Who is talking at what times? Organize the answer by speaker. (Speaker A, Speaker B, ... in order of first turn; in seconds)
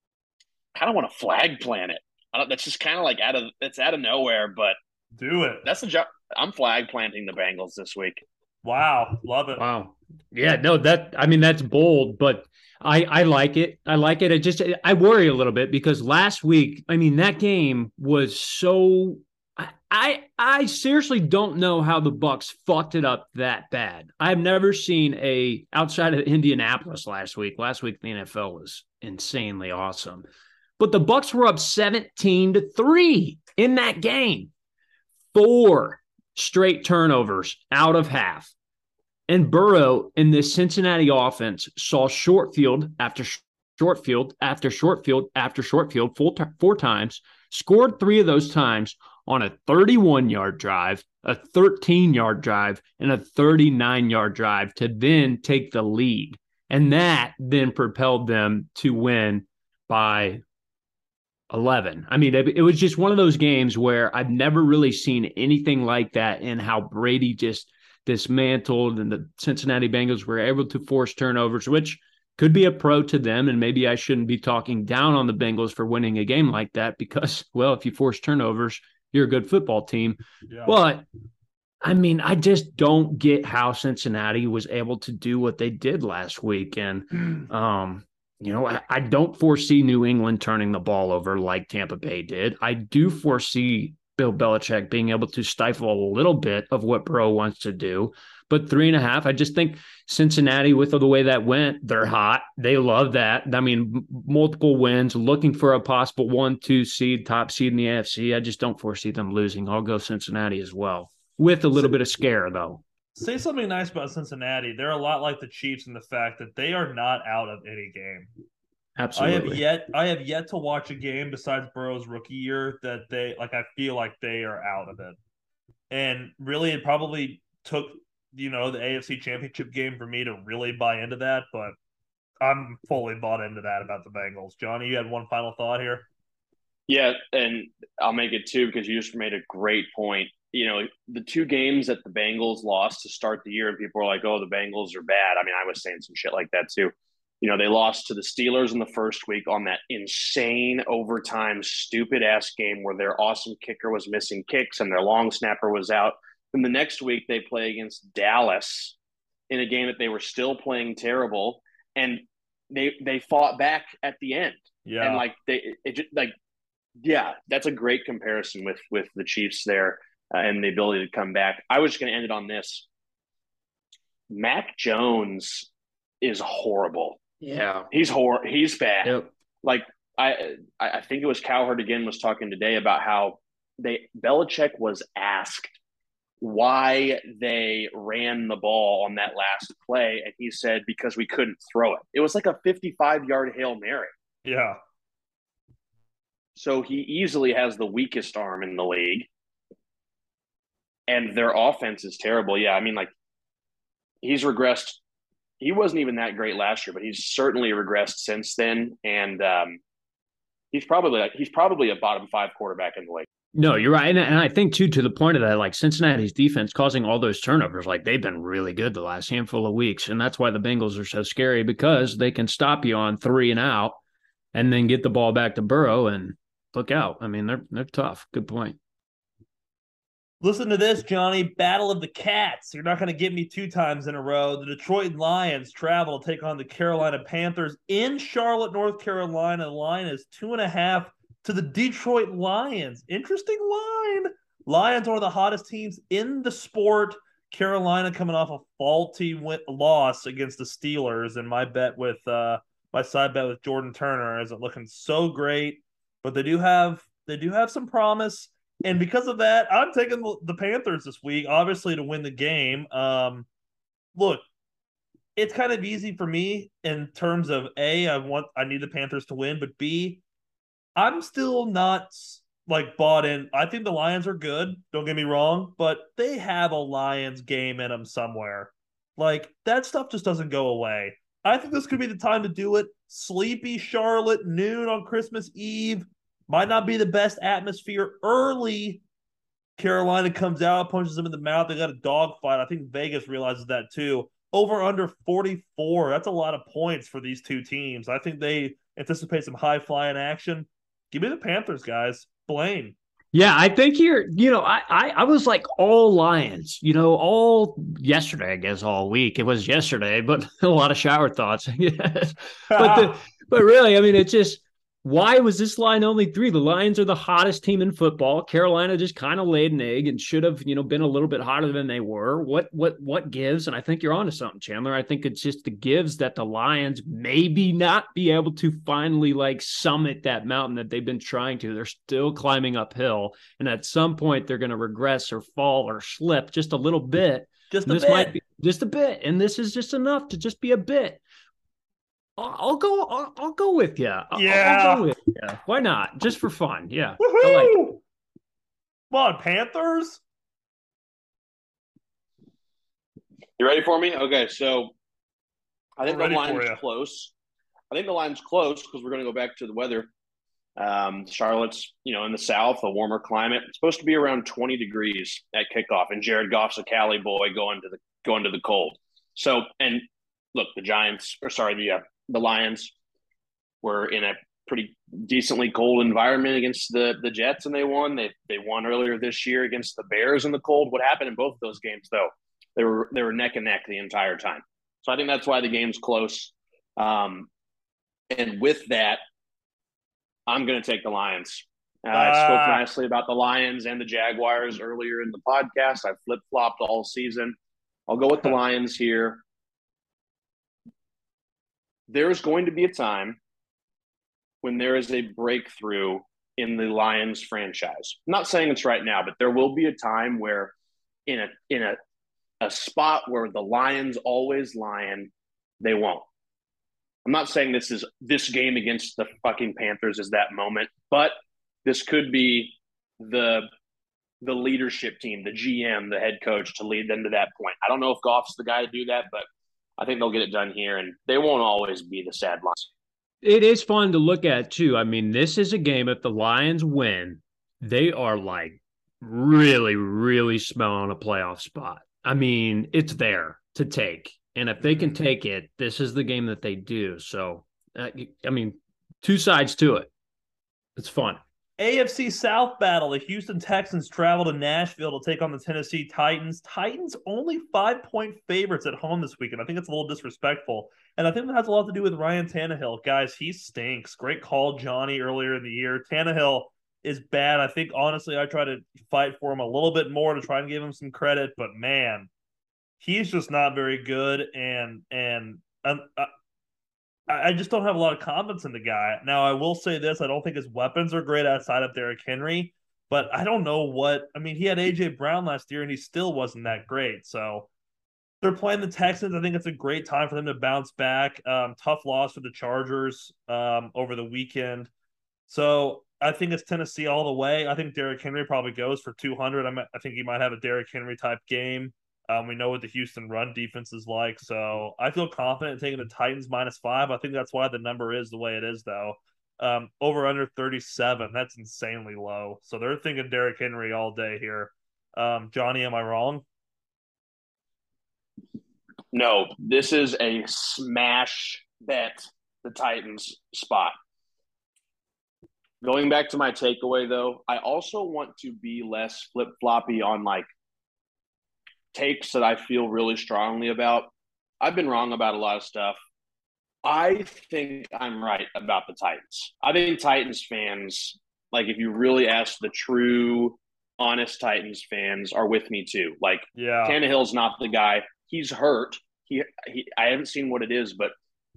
Speaker A: 0.7-4.8, 5.6-8.2, 136.9-158.9, 159.5-166.3, 167.0-172.8, 174.3-175.7, 176.2-177.2, 177.9-185.8, 186.4-194.1, 196.6-199.3, 201.1-203.1, 204.2-205.0, 205.6-209.8, 210.7-213.2, 353.6-354.9, 356.0-357.3, 357.9-360.1, 360.8-372.9, 373.8-387.5, 388.3-389.2, 390.5-397.6, 398.1-399.4, 402.1-403.4, 404.6-410.7, 411.2-412.0, 412.6-415.3, 415.8-416.2, 417.2-423.7, 424.4-429.4, 430.0-432.9, 519.1-523.9, 525.8-530.5, 531.9-534.1, 534.6-536.0, 536.8-551.1
Speaker B: 5.1-5.7, 8.6-9.6, 80.5-80.8, 113.2-118.3, 119.2-125.2, 125.9-131.7, 132.4-136.1, 164.8-165.2, 194.4-194.8, 230.4-263.5, 264.1-264.4, 265.4-270.2, 270.9-289.0, 289.8-302.9, 312.7-313.2, 337.7-338.4, 344.3-345.1, 347.2-348.0, 349.1-350.2, 356.0-356.8, 392.1-392.8, 444.8-445.1, 451.8-472.3, 473.0-476.3, 477.3-487.7, 488.4-494.9, 495.5-516.4, 546.5-547.0
Speaker C: 9.6-30.2, 30.8-34.5, 35.3-38.5, 39.3-60.4, 61.5-81.0, 81.8-112.8, 119.0-119.6, 177.4-177.9, 179.0-179.3, 213.5-224.0, 224.5-228.8, 303.3-341.2, 342.4-347.8, 433.4-450.1, 450.9-451.4